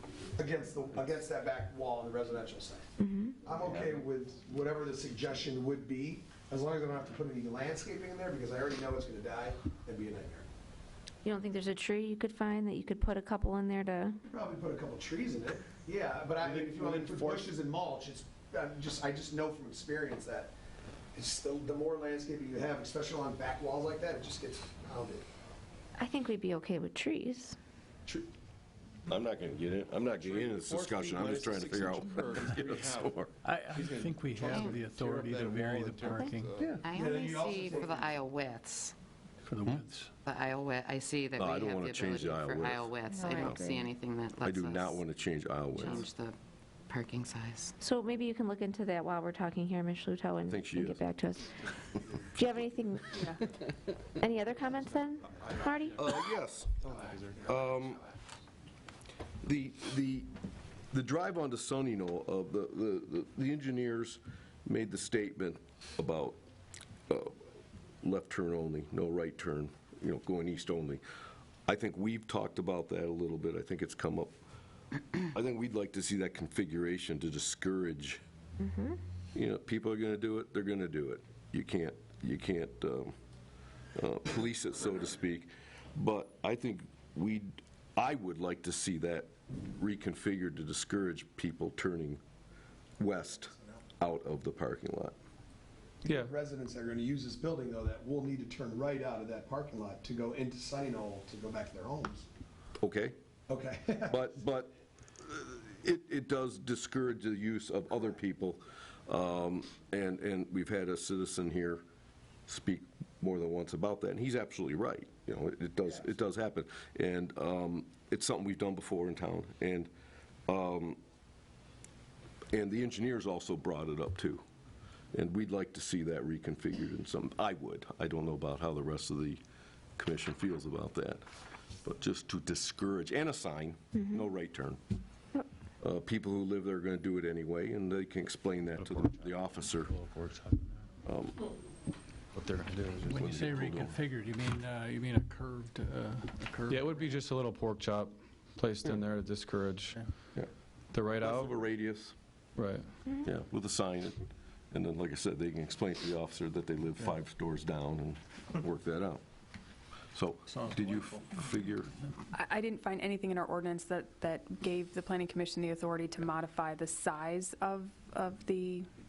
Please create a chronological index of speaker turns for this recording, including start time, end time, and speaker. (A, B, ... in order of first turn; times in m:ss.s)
0:00.4-0:02.9 A
0:03.0-0:03.4 B
0:03.4-0:10.4 A
0:11.2-0:14.2 B
0:14.2-0:20.5 A
0:16.4-0:17.5 C
0:21.1-0:25.2 A
0:26.0-0:27.6 B
0:29.1-0:33.4 D
0:30.2-0:36.8 C
0:33.4-0:36.6 E
0:34.5-0:34.8 F
0:36.8-0:39.0 F
0:36.9-0:38.2 A
0:39.5-0:40.1 E
0:40.2-0:45.0 F
0:41.4-0:43.7 D
0:43.1-0:43.9 B
0:44.4-0:46.1 D
0:45.7-0:46.4 F
0:46.9-0:47.7 F
0:47.8-0:51.6 B
0:50.5-0:51.0 D
0:52.1-0:52.7 C
0:52.4-0:53.2 B
0:54.2-0:56.0 B
0:55.4-0:56.2 C
0:56.0-0:58.0 D
0:57.0-0:57.8 C
0:59.4-1:00.3 D
1:00.9-1:06.4 D
1:07.1-1:07.3 D
1:08.0-1:11.0 D
1:11.7-1:14.3 D
1:15.3-1:18.2 D
1:18.6-1:19.0 B
1:19.4-1:23.1 D
1:24.0-1:32.2 D
1:33.0-1:35.2 D
1:36.0-1:42.3 A
1:36.1-1:36.3 G
1:42.8-1:43.2 D
1:43.5-1:44.3 A
1:44.1-1:51.8 D
1:52.5-1:59.9 D
2:00.5-2:01.0 D
2:02.5-2:04.4 D
2:05.1-2:09.4 D
2:10.0-2:11.2 D
2:11.8-2:14.8 D
2:15.8-2:19.9 D
2:18.8-2:19.2 G
2:19.9-2:20.8 G
2:21.0-2:21.5 D
2:22.3-2:23.7 G
2:23.1-2:24.0 D
2:23.1-2:27.2 E
2:26.7-2:30.0 G
2:30.9-2:31.6 G
2:31.2-2:32.2 D
2:32.6-2:32.8 G
2:33.2-2:34.2 D
2:34.7-2:39.2 D
2:40.1-2:41.9 D
2:40.5-2:41.1 E
2:42.3-2:48.9 H